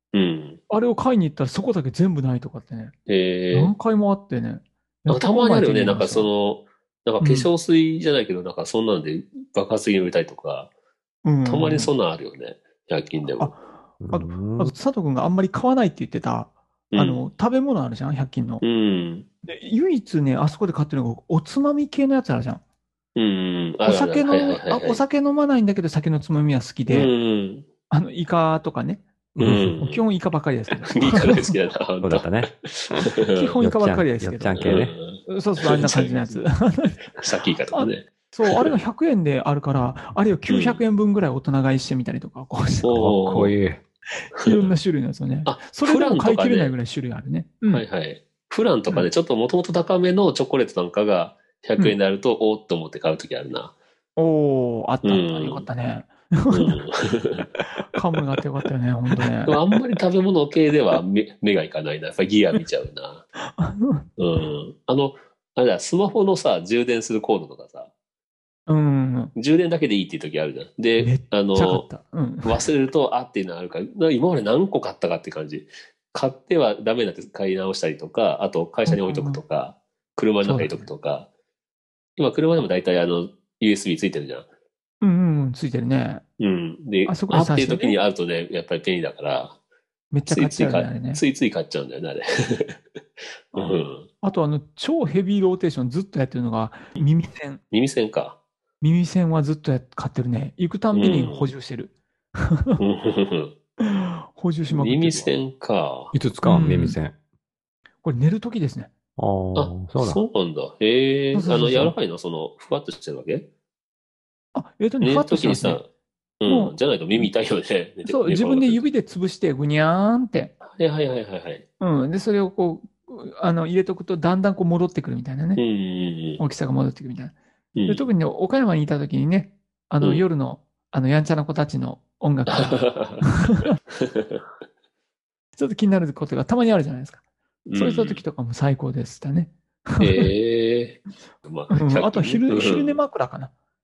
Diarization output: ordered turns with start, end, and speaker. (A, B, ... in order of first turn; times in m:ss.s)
0:00.1-0:00.6 A
0:00.7-0:02.9 B
0:03.1-0:03.7 A
0:03.5-0:06.3 B
0:05.1-0:10.7 A
0:07.2-0:07.5 B
0:11.2-0:11.9 B
0:11.4-0:13.5 A
0:13.4-0:18.6 B
0:14.0-0:14.7 C
0:16.9-0:17.2 A
0:18.6-0:19.3 A
0:19.4-0:22.6 B
0:23.2-0:25.0 A
0:23.8-0:27.1 B
0:26.9-0:27.7 A
0:27.9-0:29.0 B
0:29.4-0:29.7 C
0:29.4-0:30.0 A
0:29.8-0:31.6 B
0:30.9-0:33.6 A
0:32.0-0:32.5 C
0:33.3-0:34.7 B
0:33.6-0:35.0 C
0:34.6-0:36.4 A
0:35.3-0:37.1 B
0:37.2-0:38.7 A
0:37.7-0:43.0 B
0:40.5-0:40.8 A
0:42.8-0:43.5 A
0:42.9-0:43.8 C
0:44.2-0:47.8 B
0:45.5-0:46.7 A
0:47.7-0:53.7 A
0:54.2-0:56.8 B
0:55.0-0:55.7 A
0:56.5-0:57.5 A
0:57.6-0:59.6 B
0:59.2-1:03.2 A
1:03.4-1:04.1 B
1:04.2-1:07.9 A
1:08.7-1:09.3 B
1:09.4-1:11.8 A
1:11.0-1:12.7 B
1:12.4-1:21.3 A
1:18.9-1:19.4 B
1:20.4-1:20.9 B
1:22.2-1:24.5 A
1:25.0-1:26.2 B
1:26.4-1:29.6 A
1:27.1-1:28.0 B
1:30.1-1:31.2 B
1:30.3-1:32.8 A
1:33.5-1:34.1 A
1:34.2-1:37.6 B
1:37.7-1:38.4 A
1:38.8-1:42.8 B
1:40.9-1:41.5 A
1:42.8-1:43.5 A
1:43.8-1:45.3 B
1:44.7-1:46.1 A
1:46.1-1:47.1 C
1:46.4-1:47.0 B
1:48.0-1:48.9 B
1:49.2-1:50.2 C
1:49.6-1:53.4 A
1:51.3-1:51.9 B
1:54.6-1:55.8 B
1:55.0-1:55.9 A
1:56.4-1:58.8 A
1:56.5-1:57.3 B
1:58.0-2:00.5 B
2:00.6-2:01.6 A
2:01.8-2:05.6 B
2:05.6-2:06.4 A
2:06.4-2:07.3 B
2:07.8-2:08.1 A
2:07.9-2:13.7 B
2:12.5-2:13.2 A
2:14.0-2:14.4 A
2:15.6-2:17.2 B
2:17.7-2:18.2 A
2:17.8-2:20.3 B
2:20.0-2:23.0 A
2:21.7-2:23.5 B